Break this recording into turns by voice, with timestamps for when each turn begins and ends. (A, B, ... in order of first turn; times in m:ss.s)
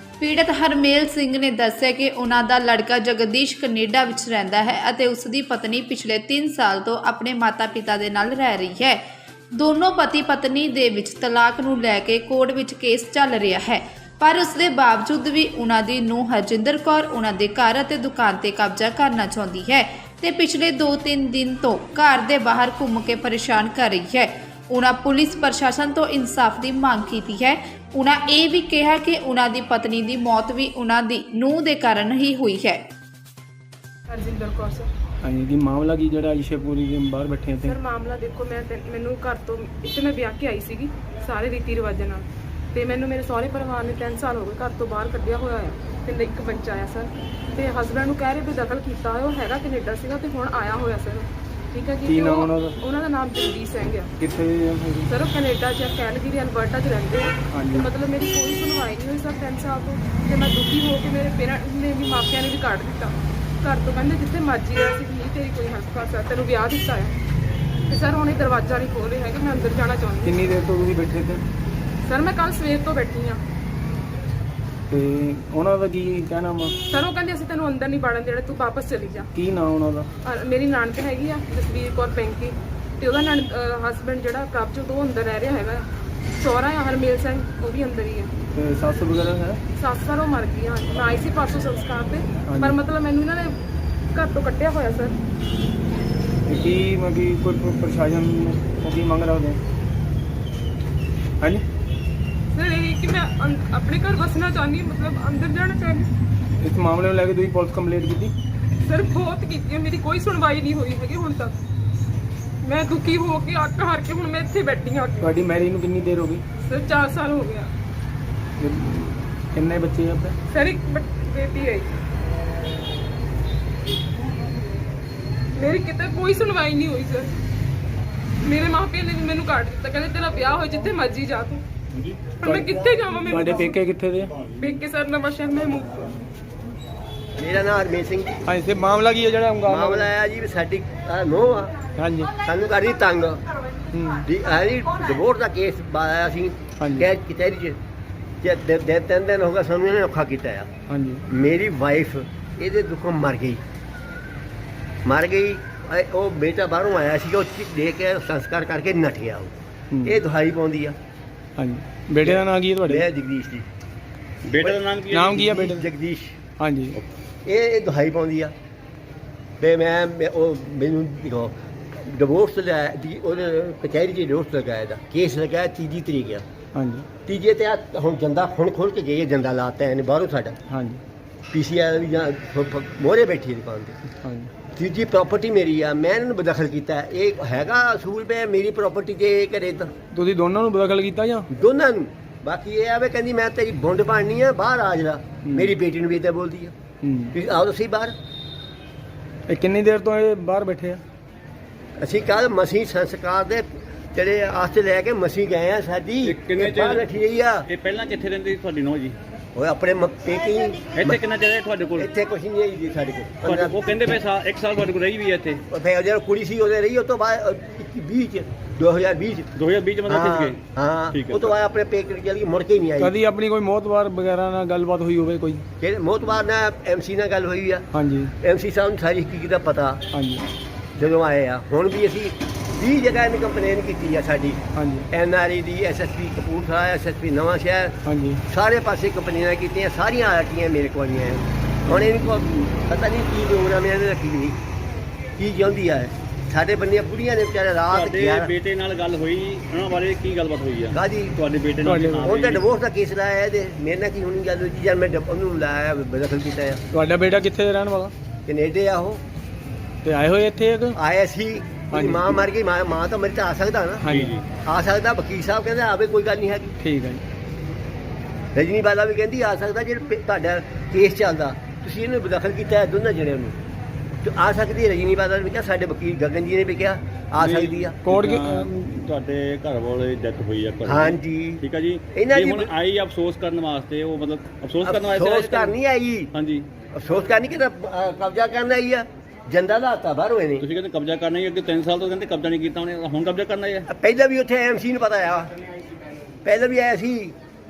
0:00.2-0:32.8 A
0:34.1-0:34.9 B
0:35.2-0:37.8 C
0:37.6-0:54.1 B
0:52.1-0:52.8 C
0:54.2-0:55.1 C
0:55.1-1:07.2 B
0:57.5-0:57.9 C
1:07.9-1:10.4 B
1:10.2-1:11.4 C
1:12.0-1:13.4 B
1:14.9-1:16.8 C
1:16.9-1:19.3 B
1:19.4-1:20.1 C
1:20.2-1:25.9 B
1:26.4-1:28.3 B
1:28.6-1:29.6 C
1:29.8-1:33.6 B
1:32.5-1:32.8 C
1:34.1-1:35.2 B
1:36.5-1:39.6 C
1:42.5-1:46.1 B
1:46.6-1:48.3 C
1:48.8-1:51.6 B
1:52.6-1:55.2 B
1:55.2-1:56.4 C
1:56.6-1:57.7 B
1:58.6-2:00.4 C
2:00.5-2:01.9 B
2:05.6-2:07.4 B
2:08.4-2:11.6 B
2:12.4-2:13.7 B
2:12.4-2:12.7 C
2:13.3-2:14.4 C
2:14.6-2:16.2 B
2:17.4-2:18.4 D
2:18.5-2:20.1 C
2:19.7-2:21.7 D
2:22.0-2:22.3 C
2:22.4-2:23.4 D
2:23.9-2:24.2 C
2:24.2-2:27.8 D
2:26.8-2:27.1 C
2:28.4-2:30.7 D
2:30.9-2:31.2 C
2:31.3-2:33.6 D
2:35.0-2:41.0 D
2:41.6-2:43.0 C
2:42.2-2:43.7 D
2:44.4-2:45.5 E
2:45.1-2:45.8 C
2:45.4-2:46.4 D
2:46.6-2:47.0 C
2:47.4-2:48.5 D
2:49.6-2:56.4 D
2:56.8-2:57.1 C
2:57.3-3:00.6 D
3:00.7-3:01.0 C
3:01.5-3:04.0 D
3:04.2-3:04.5 C
3:04.8-3:09.9 D
3:10.1-3:11.5 C
3:11.6-3:16.7 D
3:15.4-3:15.7 C
3:17.0-3:17.4 C
3:17.3-3:18.1 D
3:19.5-3:21.0 C
3:22.0-3:27.7 D
3:26.2-3:29.2 E
3:29.6-3:31.2 D
3:31.0-3:32.1 E
3:32.0-3:33.8 D
3:33.4-3:35.6 E
3:35.7-3:39.5 D
3:39.6-3:40.6 E
3:40.1-3:43.1 D
3:41.1-3:41.5 E
3:43.0-3:45.6 C
3:45.8-3:47.9 D
3:47.9-3:48.3 C
3:48.4-3:50.0 D
3:50.1-3:50.5 C
3:51.0-3:54.6 D
3:54.8-3:55.1 C
3:55.1-3:58.0 D
3:58.0-3:58.4 C
3:58.5-4:04.6 D
4:05.4-4:08.5 D
4:07.9-4:12.6 E
4:10.9-4:11.4 D
4:11.8-4:12.3 C
4:12.2-4:16.8 D
4:16.9-4:18.1 C
4:18.5-4:19.2 D
4:20.0-4:21.0 C
4:21.0-4:26.7 D
4:21.9-4:22.4 C
4:24.0-4:24.4 C
4:24.1-4:24.5 E
4:26.8-4:27.2 C
4:28.6-4:33.6 D
4:34.2-4:38.0 D
4:37.4-4:45.8 E
4:38.0-4:38.7 C
4:40.8-4:41.6 D
4:42.1-4:42.7 D
4:44.8-4:46.3 D
4:46.3-4:46.7 E
4:46.9-4:50.7 D
4:50.6-4:53.9 E
4:53.9-4:55.5 D
4:56.4-4:57.3 D